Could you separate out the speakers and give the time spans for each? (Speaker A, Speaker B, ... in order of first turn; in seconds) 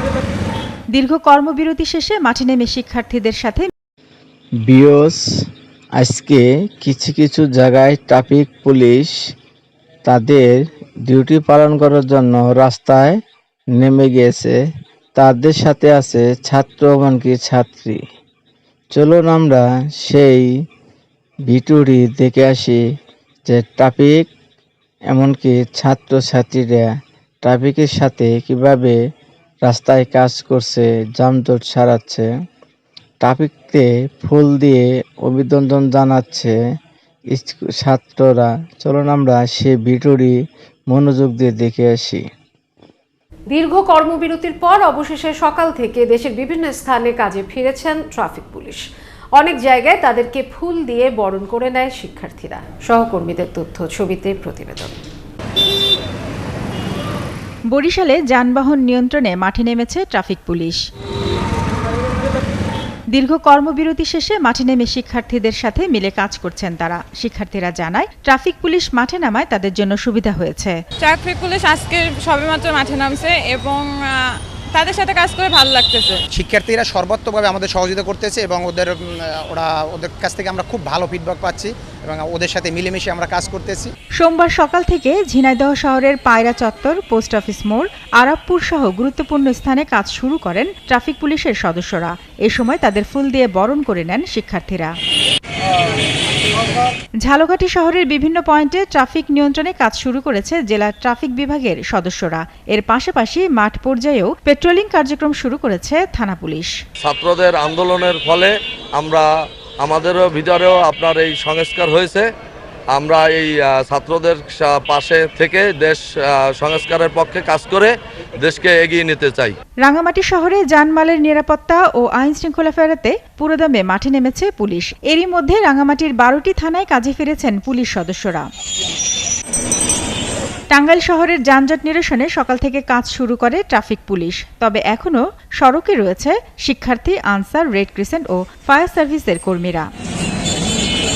Speaker A: 0.9-3.7, 57.7-60.8, 63.1-70.8, 84.2-95.0, 97.2-106.7, 119.8-128.5, 130.7-139.9
Speaker B: 4.7-5.2, 6.0-9.2, 10.1-13.2, 13.8-14.6, 15.2-18.0, 18.9-20.5, 21.5-22.8, 23.5-24.3, 25.1-26.9, 27.4-29.0, 29.6-32.3, 33.2-36.5, 37.3-40.4, 40.9-42.2
Speaker C: 43.5-48.8, 49.4-55.0
Speaker D: 71.0-76.2
Speaker E: 76.3-83.9
Speaker F: 107.0-109.3, 109.8-112.3, 112.9-119.6